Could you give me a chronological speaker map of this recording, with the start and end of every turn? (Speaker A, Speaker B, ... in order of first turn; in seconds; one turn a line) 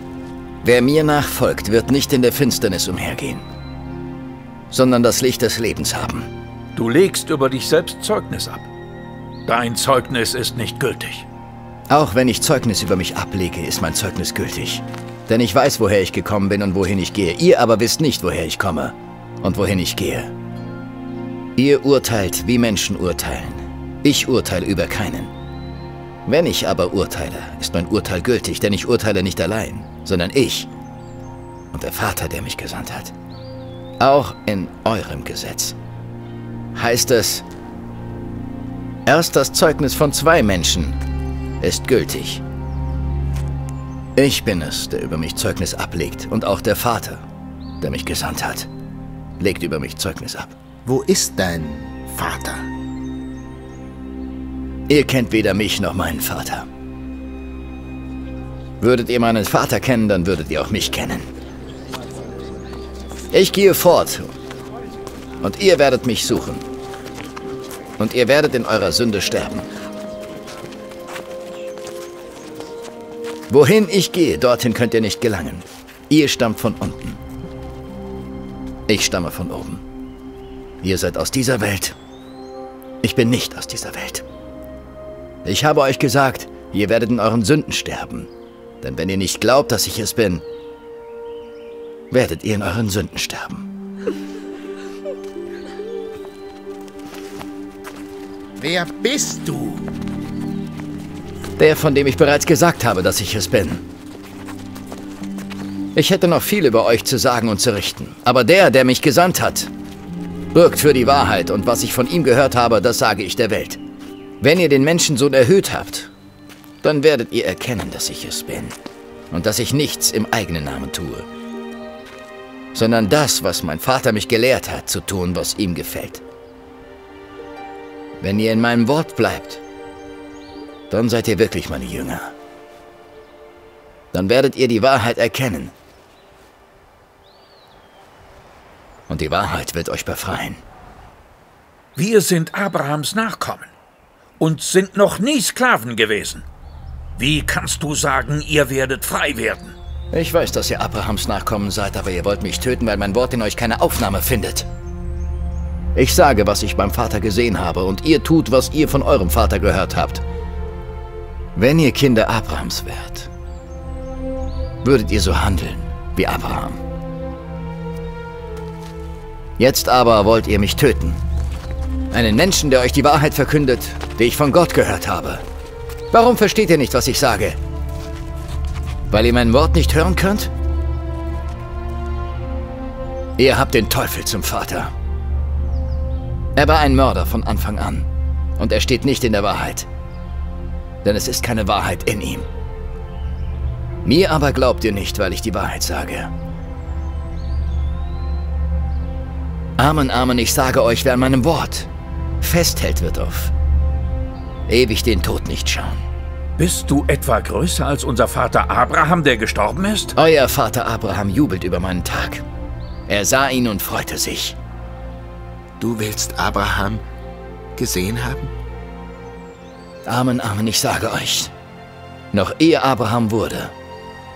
Speaker A: 0.6-3.4
Speaker A: 4.7-6.3
Speaker B: 6.8-8.7
Speaker B: 9.5-11.3
Speaker A: 11.9-20.3
Speaker A: 21.6-25.3
Speaker A: 26.3-30.7
Speaker A: 31.7-33.1
Speaker A: 34.0-35.8
Speaker A: 36.8-37.4
Speaker A: 39.1-41.0
Speaker A: 41.6-42.4
Speaker A: 44.2-47.2
Speaker A: 47.8-48.7
Speaker A: 49.4-50.5
Speaker C: 50.9-52.7
Speaker A: 54.9-56.7
Speaker A: 58.8-61.3
Speaker A: 63.3-64.3
Speaker A: 65.4-66.6
Speaker A: 68.0-69.7
Speaker A: 73.5-77.2
Speaker A: 78.9-79.8
Speaker A: 80.8-82.0
Speaker A: 83.0-84.2
Speaker A: 85.4-88.3
Speaker A: 88.8-90.4
Speaker A: 92.1-93.7
Speaker C: 98.6-99.9
Speaker A: 101.6-103.8
Speaker A: 106.0-109.7
Speaker A: 110.5-113.8
Speaker A: 114.4-116.1
Speaker A: 116.8-118.8
Speaker A: 119.3-121.3
Speaker A: 122.7-126.2
Speaker A: 128.2-129.6
Speaker A: 130.9-132.3
Speaker A: 134.1-135.7
Speaker A: 139.1-140.6
Speaker B: 142.0-143.7
Speaker B: 144.4-146.4
Speaker B: 147.2-149.8
Speaker A: 150.1-154.7
Speaker A: 155.9-160.2
Speaker A: 161.6-163.3
Speaker A: 164.8-166.8
Speaker A: 169.6-171.2
Speaker A: 172.1-175.4
Speaker A: 176.1-177.6
Speaker A: 179.1-180.5
Speaker A: 183.4-184.9
Speaker A: 186.6-189.9
Speaker A: 191.0-192.5
Speaker A: 194.0-196.3
Speaker A: 199.8-201.9
Speaker A: 202.4-203.5
Speaker A: 204.7-206.0
Speaker B: 206.6-210.1
Speaker A: 210.2-212.4
Speaker A: 213.1-214.6
Speaker C: 215.8-217.0
Speaker C: 217.8-218.5
Speaker A: 220.1-221.5
Speaker A: 222.3-223.7